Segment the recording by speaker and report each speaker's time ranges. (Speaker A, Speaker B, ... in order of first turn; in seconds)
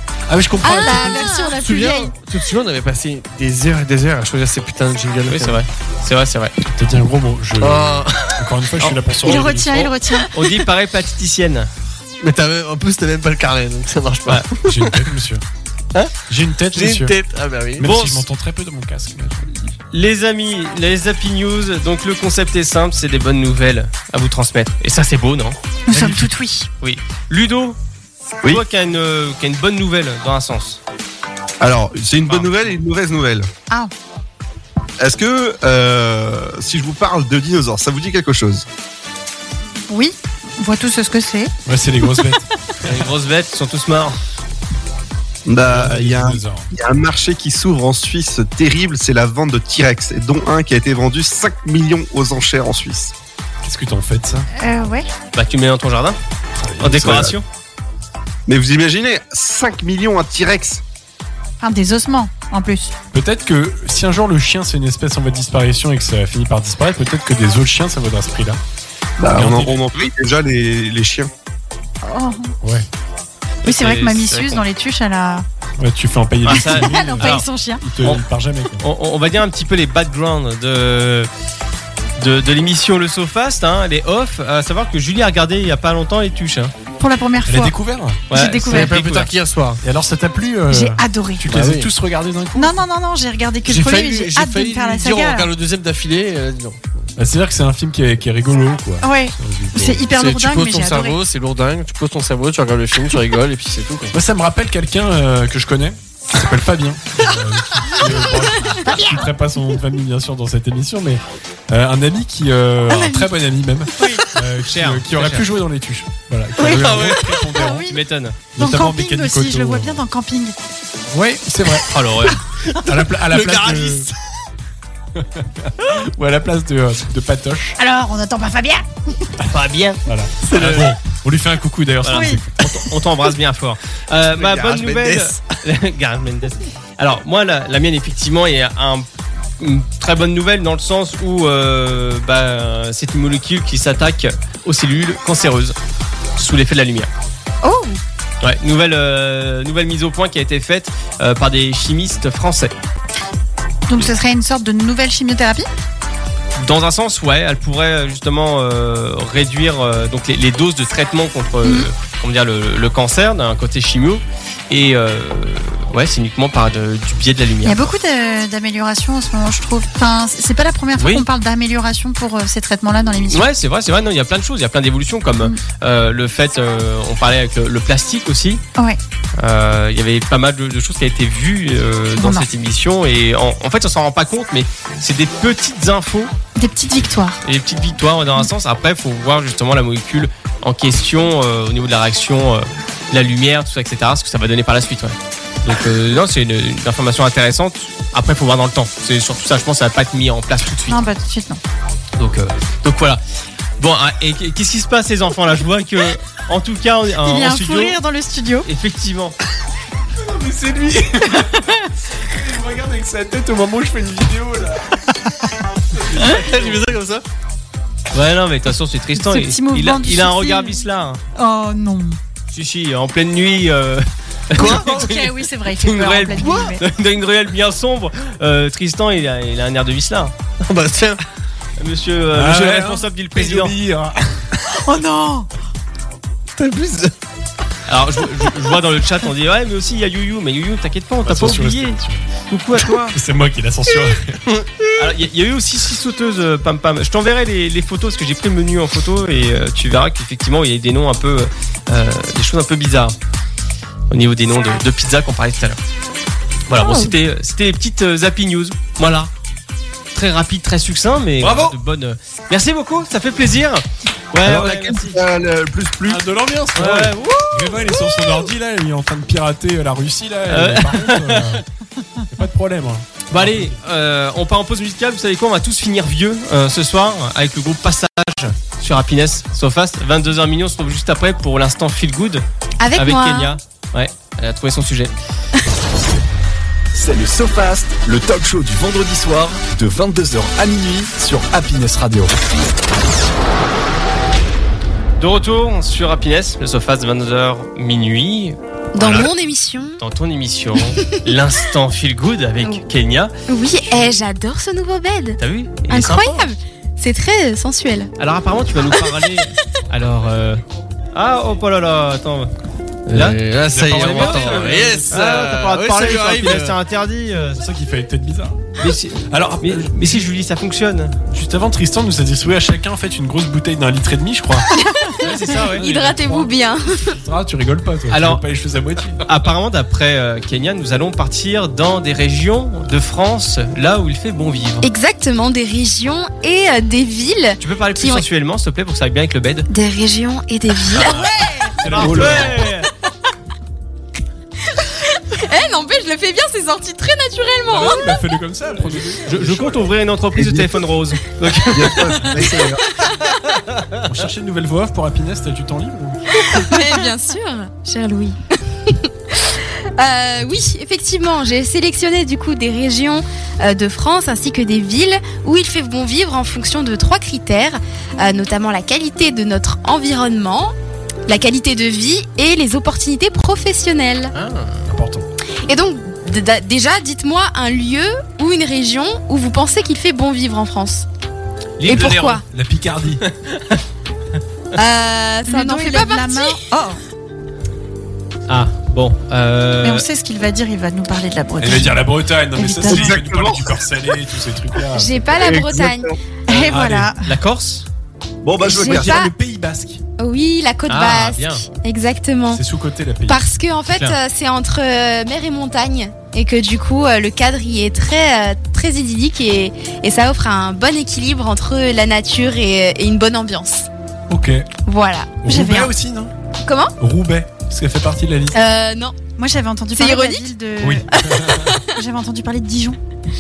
Speaker A: 0.3-1.3, 6.6-9.9, 14.6-15.4, 16.3-17.1, 17.8-19.7, 41.7-42.5, 45.6-46.7, 53.6-54.5, 56.6-57.4, 63.1-68.6, 69.3-69.8, 72.6-72.9, 75.8-78.8, 87.4-88.2, 89.8-92.8, 97.2-100.1, 104.1-118.0, 118.5-120.0, 121.1-122.2, 122.8-124.1, 125.2-127.8, 130.1-132.7, 210.1-215.2, 215.9-216.8, 232.3-234.5, 241.2-242.2, 243.1-244.4, 261.4-261.8, 266.1-271.6, 272.3-273.8, 313.7-315.2, 317.6-320.2, 321.3-324.7, 325.5-329.2, 341.8-342.7, 347.7-349.9, 354.0-356.2, 374.9-375.3, 381.9-383.2, 391.6-395.7, 396.6-397.2, 398.6-400.0, 402.5-403.4, 414.3-414.7, 415.4-416.3, 417.0-418.6, 420.8-421.8
Speaker B: 0.6-2.1, 9.2-10.3, 25.9-26.7, 39.9-41.5, 42.0-42.3, 54.6-55.1, 61.6-62.9, 72.0-72.5, 73.6-75.5, 76.5-77.9, 87.0-87.8, 88.3-88.9, 90.7-91.5, 92.6-95.5, 99.0-101.2, 108.8-109.3, 112.9-113.3, 114.0-114.3, 116.6-116.9, 117.5-118.0, 118.6-120.6, 127.8-129.3, 132.1-132.4, 147.6-148.0, 153.9-155.7, 161.6-161.9, 167.6-173.5, 182.2-182.5, 186.6-187.4, 200.9-201.6, 207.2-208.7, 219.2-220.8, 221.3-222.2, 224.6-226.8, 234.8-235.5, 341.1-342.0, 385.5-387.0, 389.8-392.0, 392.6-393.1, 396.5-397.3, 415.4-415.9, 419.4-421.1, 421.9-423.0
Speaker C: 0.7-1.5, 282.8-283.6, 298.9-300.0, 303.5-308.1, 324.7-327.2, 334.8-338.2, 339.7-341.4, 344.7-348.2, 356.4-370.7, 371.3-374.3, 375.7-381.1, 381.9-382.4, 384.8-386.6, 395.0-396.1, 398.6-399.3, 400.2-402.6, 403.3-413.9, 414.9-415.4, 416.6-416.9, 418.5-419.1, 419.9-420.5, 421.2-421.9
Speaker D: 1.5-5.6, 7.6-8.5, 12.2-15.1, 16.7-17.9, 88.7-89.8, 91.5-91.9, 93.7-97.1, 100.2-104.1, 116.6-117.5, 122.7-124.2, 130.5-130.9, 216.2-217.2, 224.6-225.0, 230.7-231.2, 236.6-237.1, 244.5-244.8, 313.1-316.8
Speaker E: 5.3-6.5, 9.5-11.7, 17.8-18.2, 19.9-25.6, 26.8-27.8, 28.4-30.8, 32.2-32.6, 42.8-44.2, 55.3-56.2, 56.8-57.5, 73.6-74.6, 76.5-77.5, 78.8-81.3, 82.2-86.7, 88.3-89.3, 114.6-115.5, 117.9-118.4, 121.9-122.4, 129.5-130.0, 132.0-139.1, 139.6-145.8, 146.4-147.1, 148.4-152.7, 156.6-167.9, 171.0-171.3, 173.3-178.6, 179.4-186.3, 187.4-201.0, 202.2-203.2, 203.8-208.0, 208.6-209.4, 218.1-221.2, 222.5-230.3, 231.8-233.8, 237.9-243.1, 245.0-253.2, 254.1-255.8, 256.7-259.3, 260.1-265.2, 266.8-268.2, 270.5-271.6, 273.3-282.4, 283.0-285.1, 295.2-299.3, 300.0-303.3, 305.4-306.5, 308.2-310.6, 311.1-312.5, 313.1-317.6, 318.8-321.2, 325.2-325.9, 328.1-328.4, 329.2-334.9, 337.6-339.7, 340.9-342.9, 349.2-352.3, 374.4-374.9, 381.8-382.4, 383.3-383.8, 388.5-390.1, 396.5-397.9, 400.9-401.6, 403.9-404.2
Speaker F: 31.6-33.5, 35.0-38.6, 45.5-53.1, 58.5-60.8, 69.2-71.3, 134.4-135.3, 264.4-266.2, 350.4-350.6, 351.7-352.9, 392.9-393.8, 395.4-396.2, 398.4-399.2
Speaker G: 286.9-292.4